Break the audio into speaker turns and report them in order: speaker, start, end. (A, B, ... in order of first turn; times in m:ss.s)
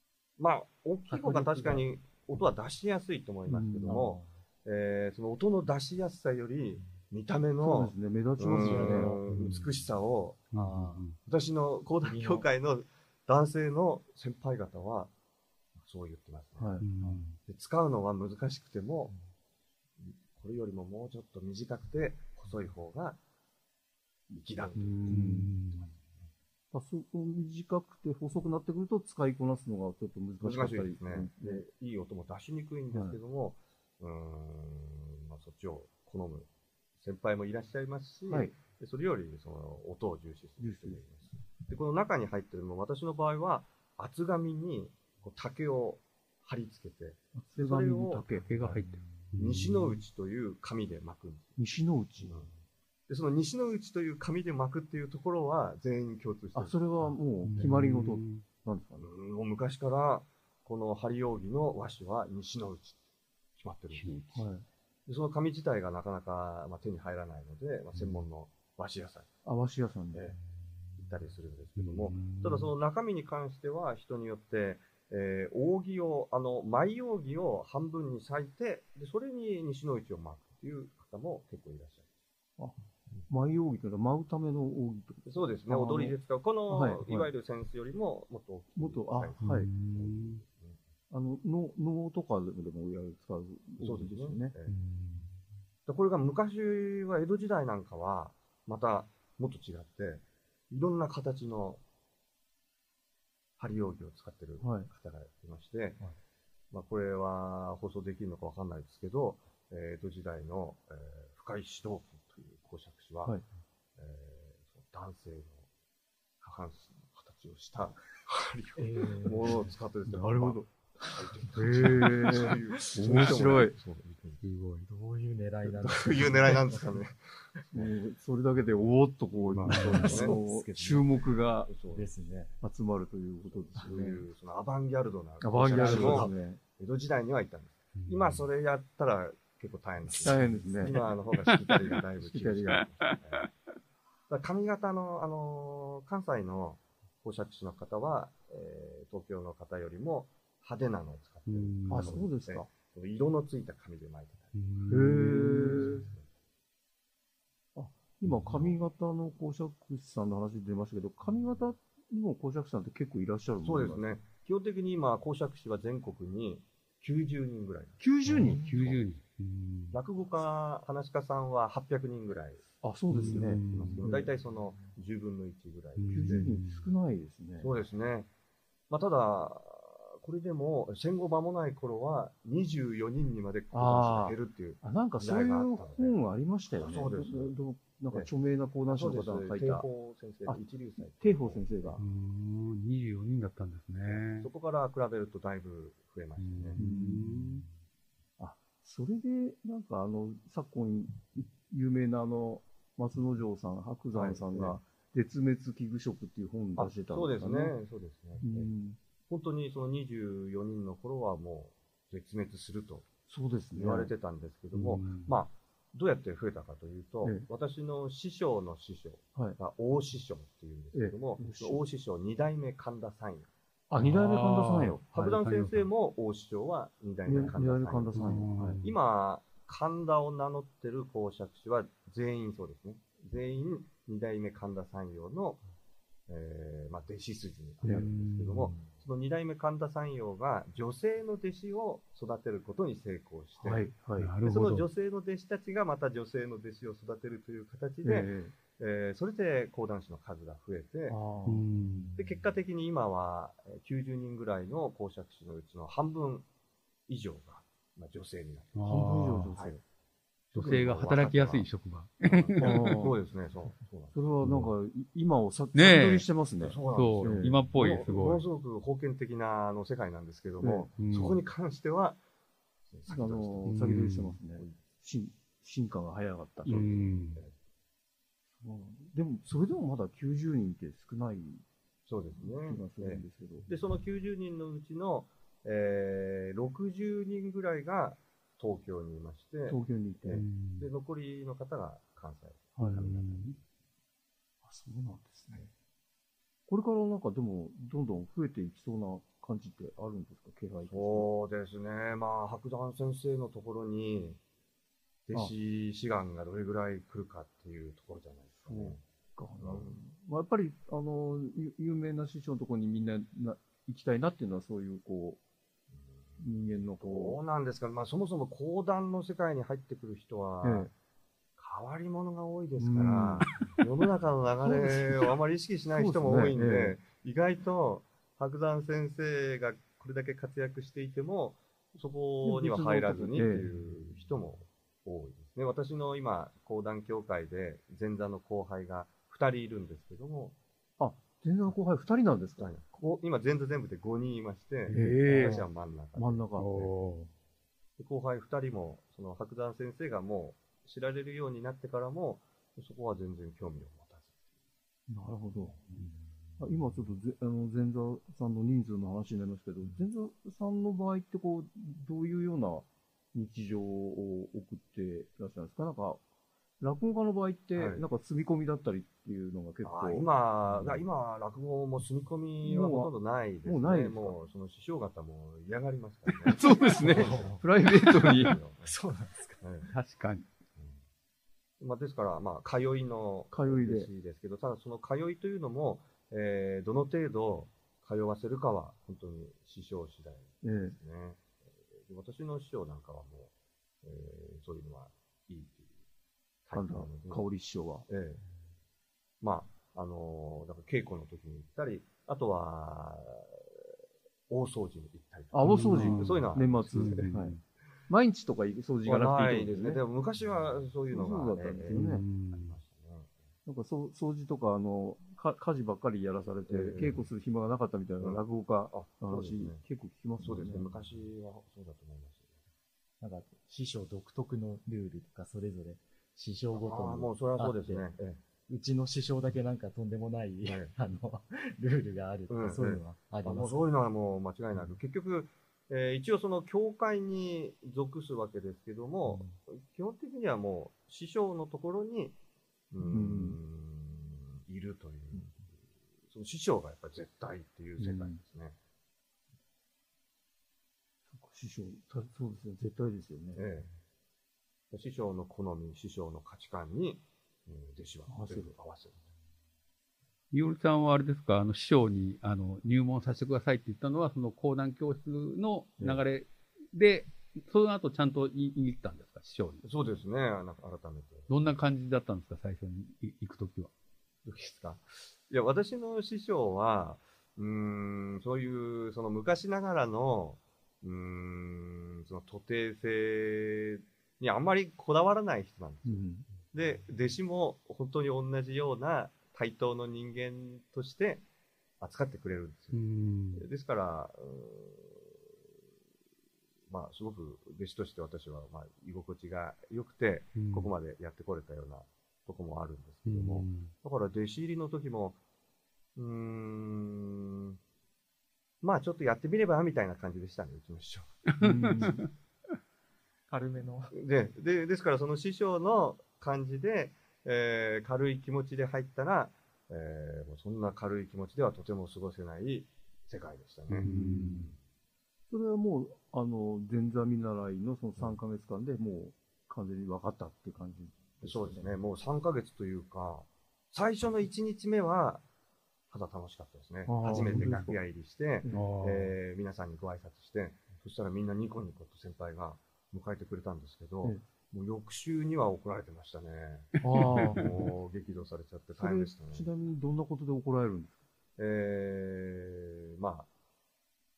0:00.4-0:10.4 A
0:01.1-0:01.9 B
0:03.5-0:04.1 C
0:03.9-0:04.3 B
0:07.6-0:09.2 C
0:08.5-0:09.7 B
0:09.3-0:09.6 D
0:10.5-0:11.2 D
0:10.5-0:11.0 B
0:11.2-0:15.1 A
0:12.0-0:12.5 B
0:15.8-0:16.7 A
0:16.6-0:16.9 C
0:16.8-0:17.4 D
0:17.5-0:19.1 A
0:20.0-0:23.2 A
0:24.3-0:26.2 A
0:24.8-0:25.9 D
0:25.0-0:25.5 C
0:26.7-0:31.7 C
0:30.4-0:48.3 A
0:32.9-0:33.2 C
0:38.3-0:38.6 C
0:40.6-0:41.0 C
0:47.3-0:49.0 C
0:48.4-0:49.9 D
0:49.4-0:51.6 A
0:51.6-0:52.5 C
0:53.1-0:57.7 A
0:56.5-0:59.1 C
0:57.4-0:58.4 D
0:59.0-1:03.0 A
1:03.6-1:04.1 A
1:03.9-1:04.3 D
1:04.1-1:04.7 C
1:05.1-1:09.3 A
1:09.4-1:10.3 C
1:11.0-1:22.1 A
1:11.8-1:12.7 D
1:23.3-1:26.2 C
1:25.3-1:30.8 A
1:26.7-1:27.3 C
1:28.8-1:29.7 C
1:29.4-1:30.4 D
1:31.1-1:34.5 C
1:33.8-1:34.7 A
1:34.7-1:35.3 D
1:35.9-1:41.8 A
1:43.6-1:46.0 A
1:44.6-1:44.9 C
1:46.7-1:53.4 A
1:54.0-1:55.7 A
1:56.4-2:00.6 A
1:58.8-1:59.7 B
2:00.1-2:00.7 C
2:01.2-2:04.2 A
2:01.4-2:03.8 C
2:03.3-2:03.6 D
2:04.2-2:07.0 B
2:04.4-2:04.9 D
2:05.8-2:07.9 A
2:07.7-2:11.7 C
2:09.5-2:10.4 A
2:09.7-2:10.0 D
2:09.7-2:11.2 B
2:11.7-2:12.1 A
2:11.9-2:12.5 B
2:12.6-2:14.2 C
2:13.8-2:23.5 A
2:15.4-2:16.6 C
2:15.8-2:16.3 B
2:18.0-2:18.4 D
2:20.1-2:21.0 C
2:20.3-2:20.8 B
2:21.5-2:22.0 D
2:22.2-2:22.9 C
2:22.8-2:23.5 D
2:24.3-2:34.5 A
2:31.5-2:32.3 D
2:31.9-2:32.7 C
2:34.5-2:36.0 D
2:34.9-2:36.1 C
2:35.4-2:36.3 A
2:37.8-2:44.2 C
2:38.4-2:38.7 A
2:43.6-2:49.0 A
2:48.0-2:48.6 C
2:48.3-2:50.0 D
2:48.4-2:48.8 B
2:49.9-2:52.6 A
2:52.8-2:54.3 C
2:53.1-2:54.0 D
2:53.2-2:56.6 A
2:56.0-2:56.9 D
2:56.1-2:57.7 C
2:57.6-2:58.3 A
2:58.9-3:06.2 A
3:03.7-3:09.9 C
3:06.8-3:07.6 A
3:08.9-3:12.0 A
3:10.4-3:12.0 C
3:12.0-3:14.5 D
3:14.0-3:16.8 A
3:16.4-3:17.6 D
3:16.8-3:17.6 C
3:18.4-3:27.8 C
3:24.1-3:24.8 A
3:26.8-3:28.7 A
3:28.4-3:29.0 C
3:29.3-3:33.1 A
3:33.3-3:34.1 C
3:33.7-3:43.5 A
3:34.7-3:35.3 D
3:40.9-3:41.8 C
3:43.9-3:45.0 C
3:44.0-3:45.9 D
3:44.7-3:55.6 A
3:47.2-3:48.8 C
3:48.1-3:48.9 D
3:56.3-4:03.9 A
3:57.8-3:58.1 C
3:57.9-3:58.7 D
4:03.6-4:04.3 C
4:04.2-4:04.8 D
4:04.5-4:11.2 A
4:08.0-4:08.5 C
4:11.1-4:12.2 C
4:11.5-4:12.2 D
4:12.2-4:16.5 A
4:17.1-4:18.8 A
4:18.8-4:19.6 D
4:18.8-4:19.8 C
4:20.5-4:21.7 A
4:20.5-4:23.0 D
4:22.2-4:24.2 A
4:22.6-4:23.2 C
4:24.1-4:27.6 C
4:24.4-4:24.7 D
4:25.8-4:26.3 D
4:26.6-4:32.2 A
4:26.9-4:28.4 D
4:30.6-4:30.9 C
4:31.0-4:31.4 D
4:32.9-4:33.8 A
4:33.1-4:37.1 C
4:33.6-4:34.4 D
4:36.7-4:37.4 D
4:36.7-4:37.5 A
4:38.6-4:41.6 C
4:42.1-4:53.5 A
4:42.4-4:43.7 C
4:49.7-4:50.4 C
4:50.3-4:50.9 D
4:52.8-4:53.1 C
4:52.8-4:53.6 D
4:54.6-4:55.7 C
4:56.7-5:01.3 C
5:00.9-5:04.4 A
5:05.3-5:09.0 A
5:08.7-5:15.4 C
5:09.6-5:10.0 A
5:15.9-5:16.4 A
5:16.4-5:17.4 C
5:17.0-5:20.9 A
5:20.6-5:20.9 C
5:21.6-5:40.6 A
5:22.8-5:23.8 C
5:24.6-5:25.4 C
5:25.9-5:27.0 C
5:32.4-5:33.7 C
5:41.0-5:42.7 C
5:42.6-5:46.9 A
5:44.9-5:45.6 D
5:44.9-5:46.7 C
5:46.6-5:47.3 D
5:48.0-5:54.5 A
5:55.1-5:55.8 C
5:56.6-6:06.2 C
6:06.8-6:11.0 C
6:07.8-6:08.0 A
6:09.8-6:18.9 A
6:12.6-6:14.3 C
6:16.3-6:18.6 C
6:17.1-6:17.6 B
6:18.8-6:19.6 B
6:19.6-6:19.9 A
6:19.9-6:20.4 D
6:21.8-6:36.0 A
6:23.5-6:24.1 C
6:30.6-6:31.0 C
6:36.6-6:37.4 A
6:36.7-6:38.1 C
6:38.1-6:38.4 A
6:39.4-6:43.9 A
6:44.5-6:47.3 A
6:45.5-6:47.6 C
6:45.6-6:47.6 D
6:48.1-6:50.0 C
6:49.0-6:53.4 A
6:51.1-6:52.2 C
6:51.9-6:52.8 D
6:53.7-7:00.9 C
6:56.7-6:57.2 A
6:58.2-6:59.8 A
7:00.4-7:02.5 A
7:03.2-7:08.1 B
7:06.8-7:08.4 A
7:08.7-7:13.9 B
7:10.6-7:10.9 A
7:12.5-7:22.4 A
7:19.3-7:19.5 C
7:22.9-7:28.8 A
7:23.0-7:23.6 C
7:28.0-7:28.4 C
7:31.3-7:33.6 C
7:33.5-7:33.9 A
7:34.9-7:39.2 A
7:38.3-7:38.7 C
7:40.5-7:49.8 D
7:49.8-7:51.5 A
7:51.5-7:53.9 D
7:54.4-8:11.4 A
8:06.0-8:06.5 C
8:12.0-8:13.0 A
8:12.9-8:13.6 D
8:13.5-8:15.4 A
8:16.9-8:25.4 A
8:20.6-8:20.9 D
8:23.3-8:23.9 D
8:26.2-8:27.8 A
8:28.8-8:31.4 A
8:31.5-8:32.3 D
8:31.6-8:32.3 C
8:33.5-8:34.1 B
8:34.1-8:44.8 A
8:43.9-8:44.7 C
8:43.9-8:44.7 D
8:45.5-8:51.9 C
8:51.4-8:55.4 A
8:56.1-9:09.7 A
8:57.1-8:58.0 C
8:57.3-8:57.8 D
8:58.6-8:58.9 C
8:58.7-8:59.4 D
9:07.0-9:07.7 D
9:07.0-9:07.7 C
9:08.9-9:11.2 C
9:11.6-9:13.5 A